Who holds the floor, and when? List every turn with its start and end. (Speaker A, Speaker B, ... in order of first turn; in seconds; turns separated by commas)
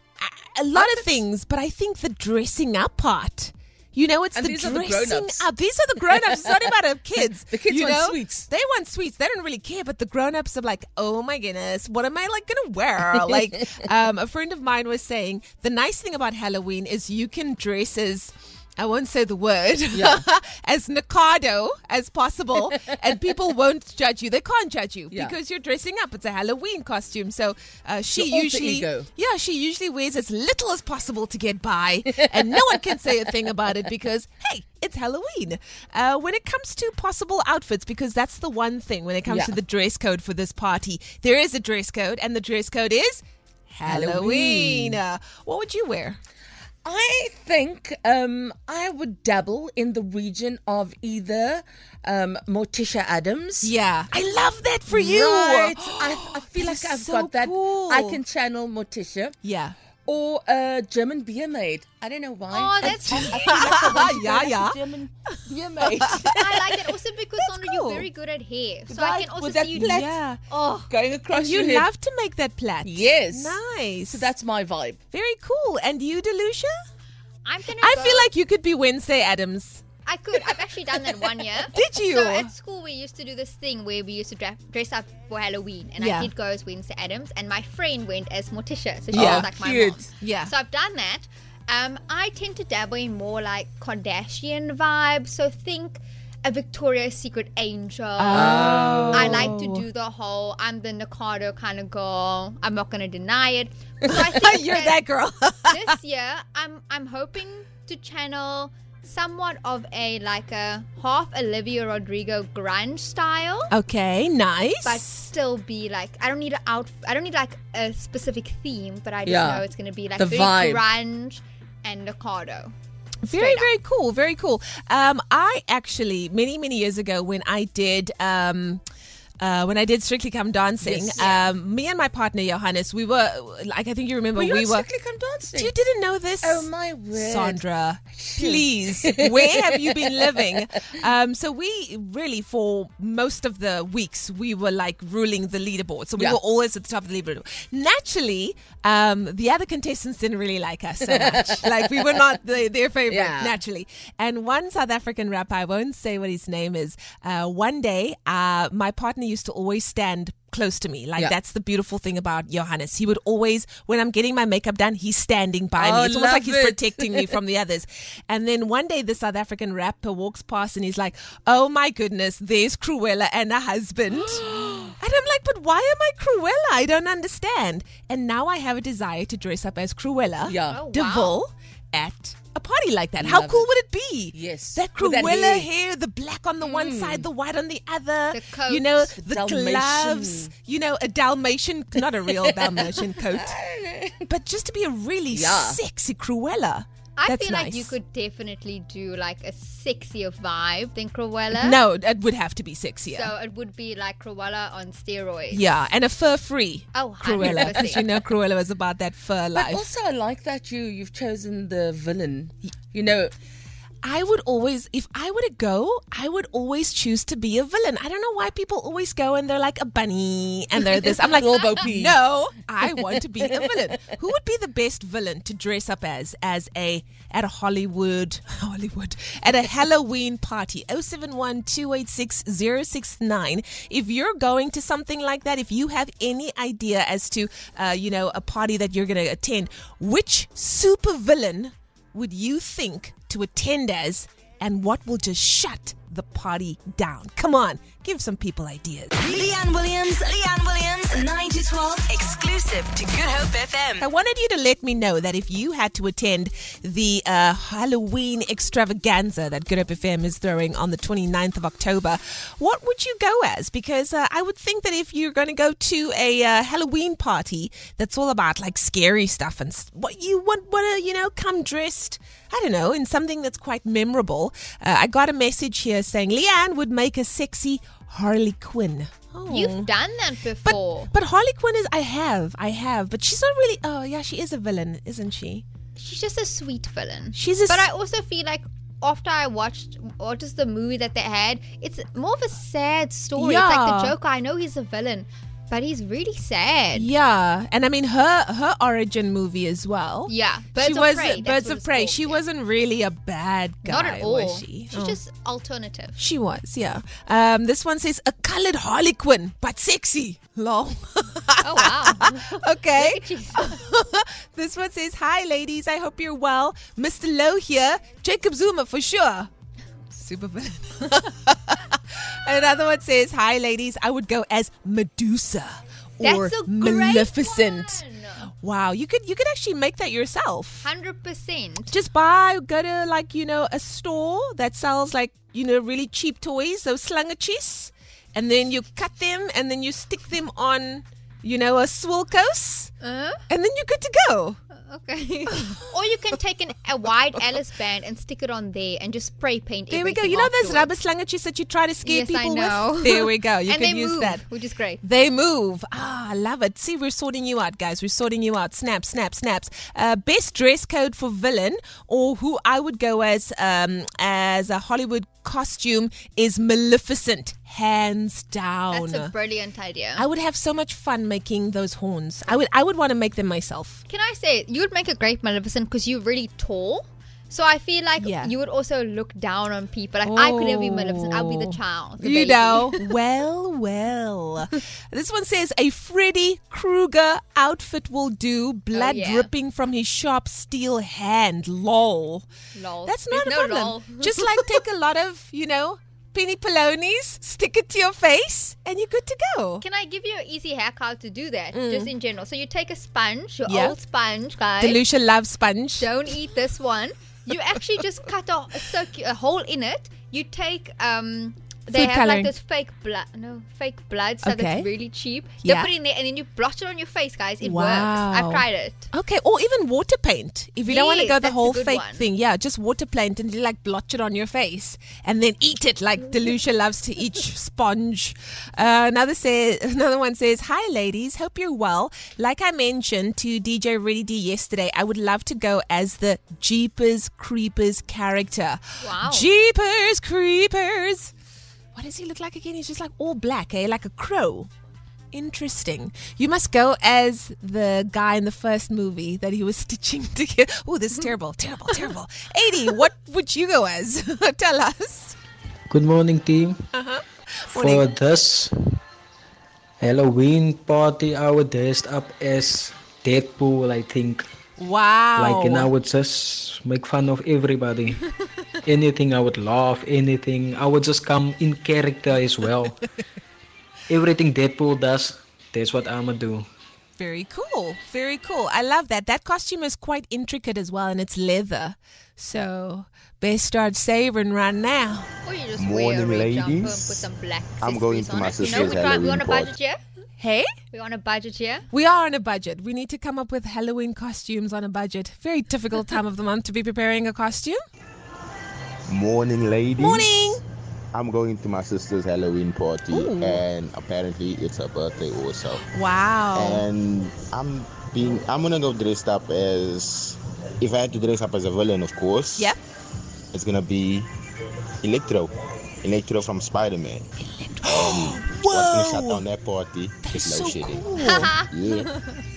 Speaker A: 0.2-46.2, Speaker B: 0.7-1.2, Speaker B: 4.3-5.5, Speaker B: 6.1-8.5, Speaker B: 13.1-13.8, Speaker B: 19.9-20.2, Speaker B: 28.1-29.1, Speaker B: 32.1-33.5, Speaker B: 39.2-39.6, Speaker B: 43.8-45.0, Speaker B: 46.8-53.7, Speaker A: 53.6-58.2, Speaker B: 54.9-59.4, Speaker A: 59.4-59.8, Speaker B: 60.0-66.8, Speaker C: 62.5-63.9, Speaker A: 62.8-64.8, Speaker A: 65.8-66.7, Speaker C: 66.3-70.9, Speaker A: 67.4-68.1, Speaker B: 68.9-70.1, Speaker A: 69.8-70.4, Speaker B: 70.9-71.9, Speaker A: 71.3-74.3, Speaker B: 72.8-75.0, Speaker A: 75.1-76.7, Speaker C: 77.4-78.3, Speaker A: 77.8-79.8, Speaker C: 80.0-98.5, Speaker A: 81.7-82.5, Speaker A: 86.0-86.3, Speaker A: 89.1-89.5, Speaker B: 89.1-90.1, Speaker A: 90.2-90.5, Speaker A: 98.2-99.8, Speaker B: 98.3-99.5, Speaker C: 99.1-105.0, Speaker A: 104.1-105.9, Speaker C: 105.7-113.7, Speaker A: 113.7-115.0, Speaker C: 114.8-122.7, Speaker B: 119.2-120.8, Speaker A: 123.2-128.8, Speaker C: 123.3-123.7, Speaker A: 129.4-134.9, Speaker B: 130.8-131.5, Speaker B: 134.3-135.7, Speaker A: 135.5-193.6, Speaker B: 136.4-140.9, Speaker B: 151.0-151.9, Speaker B: 153.1-153.6, Speaker B: 165.8-167.4, Speaker B: 180.4-180.8, Speaker C: 180.7-181.4, Speaker B: 183.2-183.7, Speaker B: 184.3-185.7, Speaker B: 186.6-187.3, Speaker C: 188.3-188.9, Speaker B: 189.0-190.5, Speaker B: 192.3-194.2, Speaker A: 194.2-197.9, Speaker B: 195.3-195.8, Speaker C: 197.2-201.8, Speaker A: 201.5-203.3, Speaker C: 203.1-205.7, Speaker A: 205.5-209.8, Speaker C: 206.9-208.0, Speaker B: 207.4-207.8, Speaker B: 209.5-213.3, Speaker A: 214.0-249.1, Speaker B: 220.8-222.2, Speaker B: 223.1-224.2, Speaker D: 249.2-254.0, Speaker A: 254.0-279.9, Speaker C: 279.5-281.1, Speaker A: 280.6-285.6, Speaker C: 285.9-297.1, Speaker A: 287.3-287.9, Speaker A: 293.4-294.1, Speaker A: 296.9-305.2, Speaker C: 300.3-302.4, Speaker C: 303.8-306.2, Speaker A: 306.2-319.5, Speaker C: 311.6-313.8, Speaker A: 320.1-328.0, Speaker C: 326.2-328.5, Speaker A: 328.6-330.9, Speaker C: 330.8-331.9, Speaker A: 331.9-342.9, Speaker C: 343.0-343.4, Speaker A: 343.5-344.6, Speaker C: 344.7-350.9, Speaker A: 345.5-345.8, Speaker A: 349.9-354.5, Speaker C: 352.0-355.0, Speaker A: 355.0-369.3, Speaker C: 368.9-370.2, Speaker A: 370.1-374.0, Speaker C: 374.1-382.9, Speaker A: 378.2-378.5, Speaker A: 380.2-392.5, Speaker C: 388.9-389.5, Speaker C: 392.7-394.8, Speaker A: 393.1-399.8, Speaker C: 399.8-405.0, Speaker A: 401.7-402.1, Speaker A: 403.7-404.0, Speaker A: 404.8-406.1, Speaker C: 406.0-419.1, Speaker A: 411.9-412.5, Speaker A: 414.4-414.9, Speaker A: 415.6-415.9, Speaker A: 417.6-441.3, Speaker C: 420.8-422.2, Speaker C: 439.0-439.5, Speaker A: 441.9-444.7, Speaker A: 445.3-455.4, Speaker E: 455.9-456.8, Speaker A: 456.9-458.1, Speaker E: 457.7-458.7, Speaker E: 460.0-464.4, Speaker A: 464.8-465.9, Speaker E: 465.4-468.2, Speaker E: 468.9-473.0, Speaker E: 474.1-476.7, Speaker A: 477.2-485.3, Speaker C: 485.4-490.0, Speaker F: 485.8-487.3, Speaker F: 487.8-489.7, Speaker A: 488.6-488.9, Speaker A: 490.4-490.7, Speaker C: 490.9-491.8, Speaker A: 491.9-497.8, Speaker F: 499.1-500.6, Speaker A: 500.0-500.6, Speaker F: 501.1-505.8, Speaker A: 503.1-503.6, Speaker A: 505.9-506.8, Speaker F: 506.5-512.8, Speaker F: 513.5-514.3, Speaker F: 515.0-515.5, Speaker F: 516.0-517.2, Speaker A: 517.4-519.5, Speaker F: 517.8-522.1, Speaker A: 520.2-521.5, Speaker C: 521.1-521.7